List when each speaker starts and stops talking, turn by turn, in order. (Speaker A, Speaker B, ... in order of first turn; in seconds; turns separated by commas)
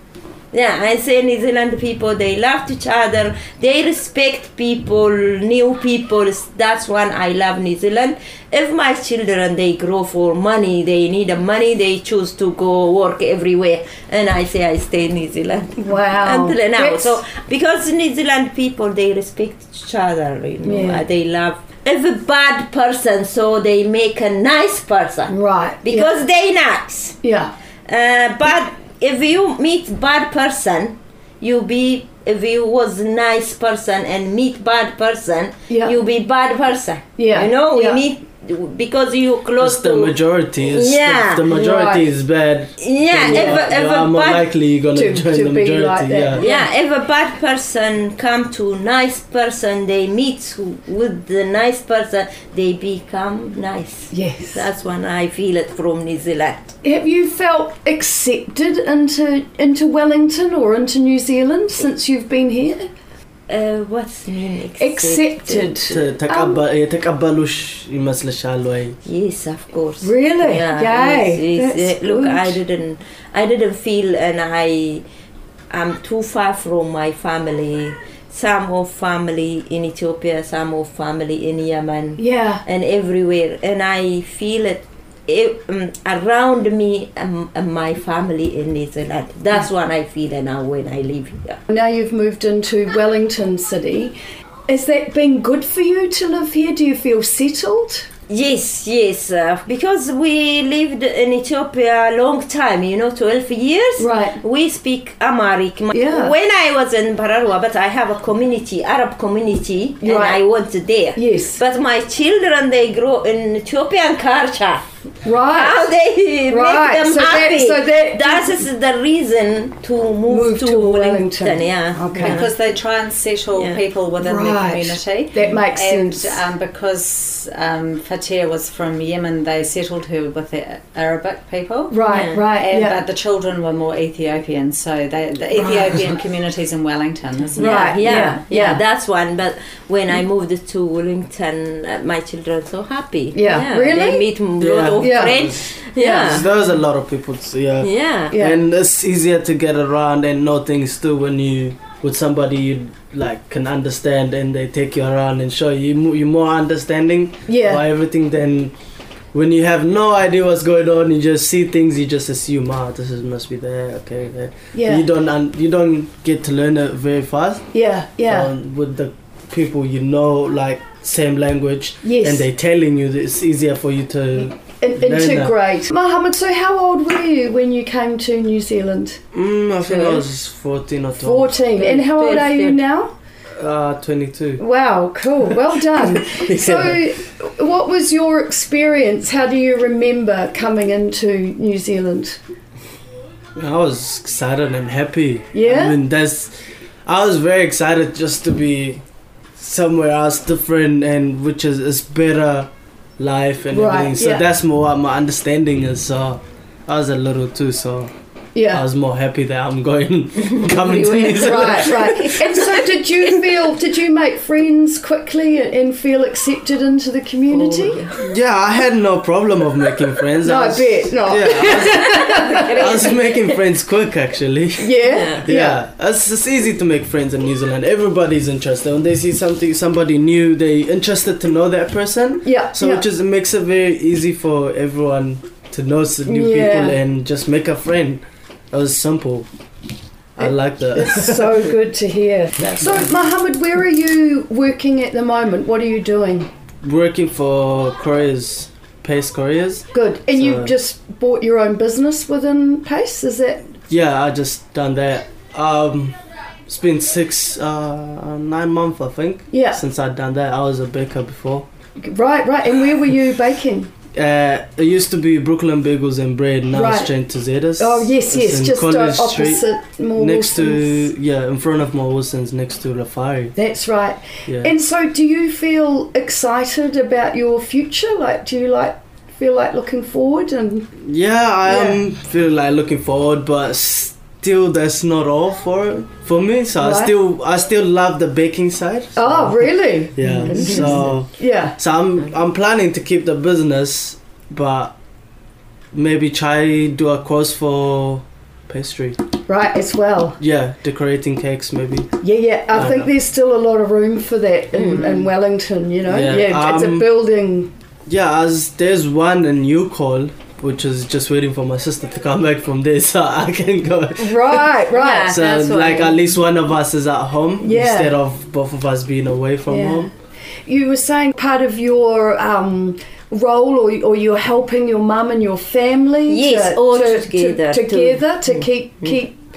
Speaker A: 0.5-27.2, Speaker B: 15.8-17.2, Speaker B: 20.6-21.1, Speaker B: 25.3-26.1, Speaker B: 27.2-27.5, Speaker A: 27.9-41.5, Speaker B: 35.7-36.0, Speaker B: 37.2-38.0, Speaker C: 39.6-46.5, Speaker B: 41.5-42.1, Speaker A: 42.8-44.5, Speaker B: 43.2-43.7, Speaker B: 44.9-46.6, Speaker A: 46.4-56.7, Speaker B: 54.1-54.7, Speaker B: 56.8-62.9, Speaker A: 63.5-65.8, Speaker B: 64.8-66.6, Speaker C: 65.9-69.0, Speaker A: 69.0-75.0, Speaker B: 70.0-72.6, Speaker A: 75.7-91.6, Speaker B: 82.2-82.6, Speaker B: 91.7-94.2, Speaker B: 94.7-98.1, Speaker A: 98.3-114.8, Speaker B: 104.0-104.4, Speaker B: 105.9-106.3, Speaker B: 110.0-110.4, Speaker B: 111.2-111.6, Speaker B: 115.2-115.9, Speaker A: 115.4-122.5, Speaker B: 116.5-118.6, Speaker B: 120.3-122.4, Speaker D: 122.2-138.4, Speaker B: 124.2-126.4, Speaker B: 131.9-133.0, Speaker A: 132.1-132.5, Speaker B: 135.6-136.0, Speaker B: 137.6-138.8, Speaker A: 137.6-146.5, Speaker B: 143.3-144.3, Speaker C: 144.6-158.7, Speaker B: 145.0-145.4, Speaker B: 146.0-146.5, Speaker A: 147.8-148.4, Speaker B: 148.3-148.6, Speaker B: 157.5-157.8, Speaker C: 159.3-167.7, Speaker B: 164.7-165.1, Speaker B: 167.7-168.5, Speaker C: 168.3-175.6, Speaker B: 172.0-172.4, Speaker B: 174.8-179.2, Speaker C: 179.3-181.6, Speaker D: 179.9-180.2, Speaker B: 181.2-183.1, Speaker D: 181.8-182.8, Speaker C: 183.6-184.6, Speaker B: 184.6-192.4, Speaker C: 185.8-187.1, Speaker C: 193.6-199.0, Speaker B: 195.5-196.0, Speaker C: 199.6-208.1, Speaker B: 203.7-204.4, Speaker B: 208.6-208.8, Speaker C: 208.7-212.5, Speaker A: 210.4-213.5, Speaker B: 211.4-218.0, Speaker A: 217.5-218.3, Speaker C: 218.2-239.5, Speaker B: 220.4-223.2, Speaker A: 222.1-223.2, Speaker B: 224.8-225.8, Speaker A: 225.1-225.5, Speaker B: 232.4-233.1, Speaker B: 236.3-237.0, Speaker C: 240.4-241.8, Speaker B: 240.4-246.5, Speaker C: 246.8-250.7, Speaker B: 249.9-253.6, Speaker C: 253.9-256.2, Speaker C: 256.7-261.7, Speaker B: 259.5-259.8, Speaker B: 262.0-263.9, Speaker C: 264.1-269.6, Speaker B: 266.7-267.1, Speaker B: 267.8-271.1, Speaker C: 270.2-273.6, Speaker B: 273.6-280.9, Speaker C: 281.0-294.9, Speaker B: 281.7-282.0, Speaker B: 286.8-287.1, Speaker B: 289.2-291.8, Speaker A: 290.5-290.9, Speaker C: 295.9-299.2, Speaker B: 299.5-300.4, Speaker C: 300.4-302.2, Speaker B: 302.2-307.7, Speaker C: 302.7-303.1, Speaker A: 304.8-305.1, Speaker C: 306.1-307.1, Speaker C: 308.1-314.7, Speaker B: 314.2-315.4, Speaker A: 314.9-316.2, Speaker C: 315.3-320.1, Speaker B: 317.6-318.1, Speaker B: 319.7-320.1, Speaker B: 320.7-329.4, Speaker A: 326.3-329.2